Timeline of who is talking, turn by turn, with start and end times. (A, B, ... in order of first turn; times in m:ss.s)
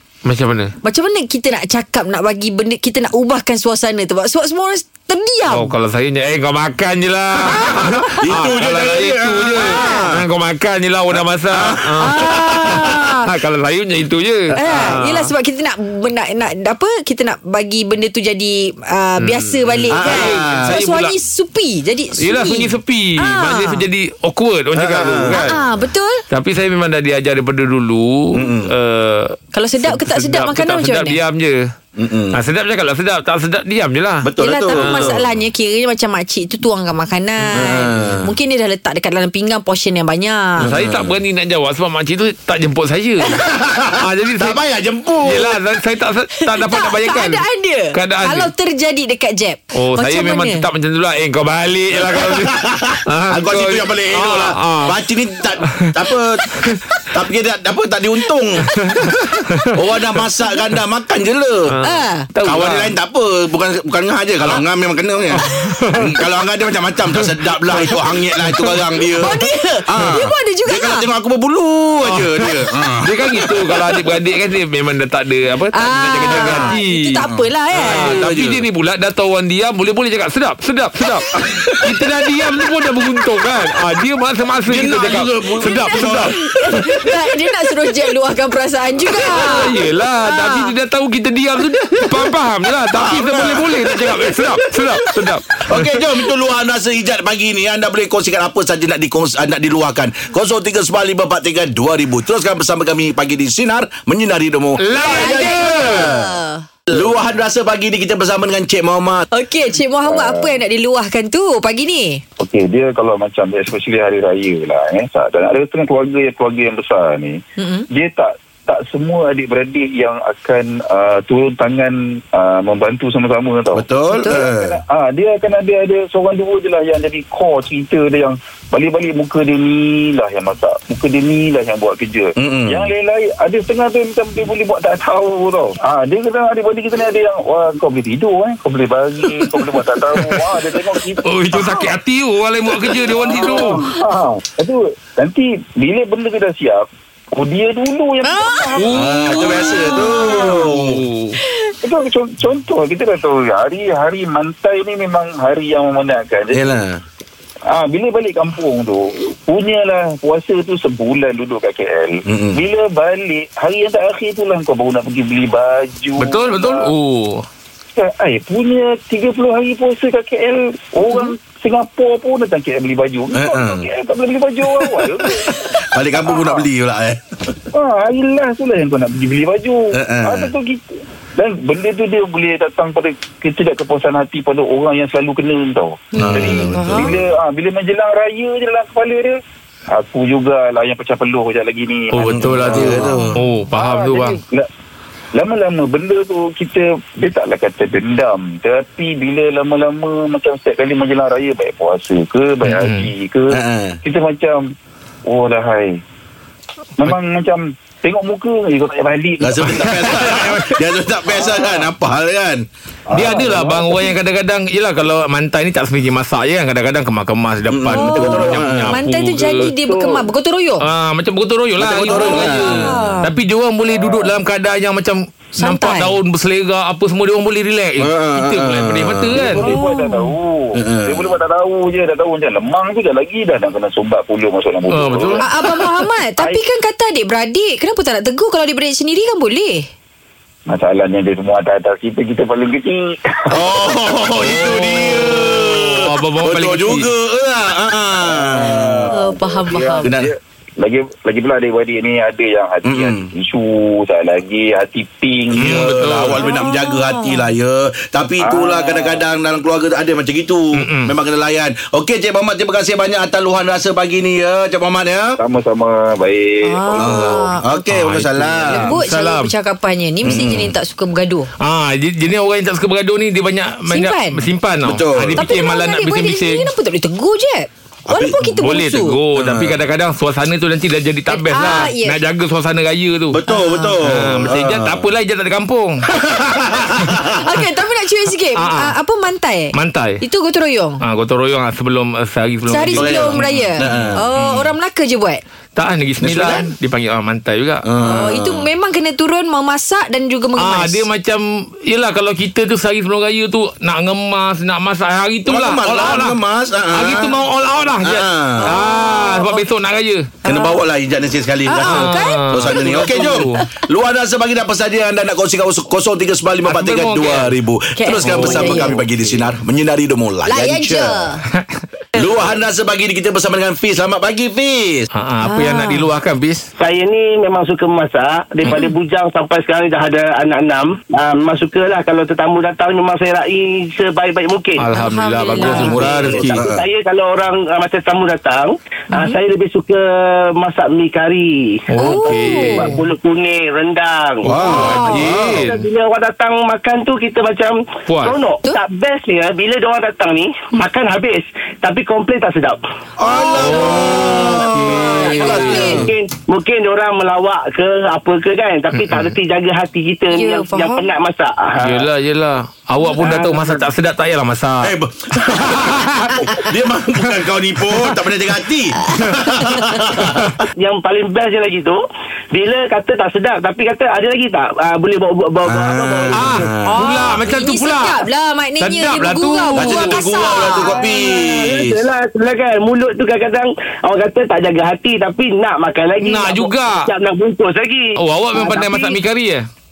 0:00.2-0:00.7 A
0:00.8-0:05.7 B
0:05.5-0:15.3 A
0:07.4-0:10.2 C
0:07.8-0:08.4 B
0:09.6-0:10.1 B
0:11.2-0:13.1 C
0:12.0-0:13.3 B
0:14.6-0:23.9 B
0:14.7-0:15.0 C
0:19.2-0:21.2 A
0:19.9-0:20.8 C
0:22.2-0:25.5 A
0:24.7-0:25.6 C
0:25.3-0:26.2 B
0:26.3-0:31.7 A
0:28.3-0:28.7 C
0:29.5-0:31.2 B
0:32.0-0:32.4 C
0:32.3-0:35.2 A
0:34.2-0:35.2 C
0:34.4-0:40.7 B
0:37.5-0:37.8 A
0:37.5-0:38.3 C
0:40.6-0:41.2 C
0:40.6-0:43.4 A
0:43.3-0:45.6 C
0:44.0-0:44.6 A
0:45.2-0:48.5 A
0:46.5-0:50.6 B
0:49.8-0:55.0 A
0:52.0-0:56.5 C
0:56.5-0:57.0 B
0:57.1-1:01.7 C
0:58.7-0:59.7 A
1:01.7-1:02.9 A
1:01.8-1:02.3 B
1:02.4-1:14.0 C
1:05.3-1:06.2 A
1:07.2-1:09.3 A
1:09.2-1:11.1 B
1:12.1-1:26.9 A
1:15.7-1:18.2 B
1:16.3-1:18.6 C
1:21.4-1:23.4 C
1:24.7-1:27.2 C
1:25.6-1:30.7 B
1:29.1-1:29.6 C
1:29.3-1:36.0 A
1:32.9-1:34.9 C
1:35.7-1:46.3 C
1:44.8-1:46.1 A
1:45.0-1:46.6 B
1:46.9-1:49.3 C
1:49.3-1:52.2 B
1:50.0-1:50.6 D
1:52.4-1:57.4 D
1:57.6-1:57.9 B
1:57.9-2:21.8 D
2:03.7-2:04.8 C
2:04.1-2:04.5 B
2:12.4-2:12.9 C
2:21.3-2:23.8 A
2:22.9-2:30.5 D
2:23.5-2:23.8 B
2:28.2-2:28.8 B
2:28.8-2:29.5 A
2:28.9-2:31.0 C
2:29.4-2:30.6 B
2:30.5-2:31.4 A
2:31.5-2:31.8 B
2:31.8-2:36.7 D
2:36.5-2:37.0 C
2:37.7-2:46.9 D
2:42.3-2:42.6 C
2:46.2-2:47.5 A
2:48.0-2:55.7 D
2:53.3-2:53.9 C
2:55.1-2:57.7 C
2:56.2-2:56.7 D
2:57.7-3:00.8 D
2:59.9-3:00.5 C
3:01.4-3:09.4 D
3:06.1-3:07.1 B
3:06.2-3:07.2 C
3:09.9-3:14.7 D
3:12.1-3:14.4 A
3:12.3-3:13.4 C
3:13.1-3:13.4 B
3:15.3-3:24.6 D
3:22.6-3:23.1 A
3:23.5-3:24.0 C
3:25.3-3:26.0 D
3:27.0-3:30.6 D
3:29.4-3:32.7 C
3:29.6-3:30.8 A
3:31.3-3:31.8 D
3:33.1-3:34.1 D
3:33.1-3:39.7 A
3:37.7-3:39.0 C
3:37.9-3:40.9 B
3:39.8-3:40.2 D
3:40.8-3:49.7 A
3:41.8-3:43.0 C
3:42.0-3:43.3 B
3:43.9-3:44.2 D
3:45.6-3:46.2 B
3:48.0-3:49.7 C
3:49.3-3:55.8 D
3:49.7-3:50.3 B
3:50.8-3:51.3 C
3:54.9-3:55.4 A
3:55.4-3:59.9 B
3:56.4-3:56.6 D
4:00.7-4:04.6 D
4:03.5-4:09.2 C
4:04.4-4:07.1 A
4:08.2-4:15.9 D
4:09.1-4:10.1 B
4:10.0-4:10.3 C
4:12.8-4:13.3 C
4:15.5-4:25.4 C
4:15.6-4:16.4 A
4:16.4-4:17.5 B
4:18.4-4:19.2 D
4:20.8-4:21.1 A
4:25.4-4:27.4 D
4:26.6-4:27.7 B
4:27.0-4:29.0 C
4:27.9-4:29.5 A
4:28.7-4:31.5 B
4:30.2-4:30.8 C
4:31.6-4:36.7 A
4:33.9-4:34.5 B
4:34.8-4:35.5 C
4:35.4-4:39.2 B
4:38.1-4:38.5 C
4:38.6-4:43.4 A
4:39.4-4:39.8 C
4:41.3-4:42.2 B
4:43.3-4:45.1 C
4:43.5-4:44.0 B
4:44.0-4:46.1 A
4:46.2-4:47.4 C
4:47.3-4:51.0 B
4:48.6-4:49.0 A
4:49.7-4:50.2 A
4:51.0-4:54.7 A
4:52.7-4:55.4 B
4:52.9-4:54.2 C
4:55.8-4:57.8 A
4:56.2-4:56.7 C
4:57.8-4:58.7 C
4:58.0-5:01.0 B
5:00.6-5:06.4 A
5:05.5-5:07.4 C
5:06.9-5:10.3 A
5:08.0-5:08.7 C
5:08.6-5:09.7 B
5:10.4-5:10.8 B
5:10.4-5:21.2 C
5:11.7-5:13.7 B
5:11.8-5:13.6 A
5:16.6-5:17.6 A
5:18.0-5:19.0 B
5:18.2-5:19.5 A
5:20.5-5:21.4 B
5:21.6-5:21.8 A
5:22.2-5:25.1 C
5:25.1-5:26.7 A
5:25.4-5:26.1 B
5:26.8-5:34.9 E
5:34.8-5:36.6 A
5:34.9-5:36.1 B
5:35.6-5:36.8 C
5:35.7-5:40.0 E
5:39.1-5:39.4 B
5:40.6-5:52.8 E
5:41.9-5:43.0 A
5:42.0-5:43.0 B
5:44.5-5:45.7 C
5:44.5-5:45.9 A
5:44.6-5:45.2 B
5:48.1-5:48.4 A
5:53.2-5:56.1 C
5:53.3-5:56.1 B
5:53.6-5:56.1 A
5:55.2-6:02.1 E
5:58.9-5:59.4 A
6:00.3-6:01.1 B
6:01.8-6:04.9 A
6:03.2-6:03.8 E
6:04.8-6:10.6 C
6:05.6-6:06.4 A
6:09.4-6:10.0 B
6:10.2-6:10.5 A
6:10.8-6:12.0 E
6:12.5-6:16.6 E
6:15.7-6:16.9 C
6:16.3-6:18.2 A
6:16.9-6:20.9 B
6:18.8-6:20.2 A
6:19.7-6:22.0 C
6:20.6-6:29.2 E
6:26.2-6:27.1 A
6:28.2-6:29.6 A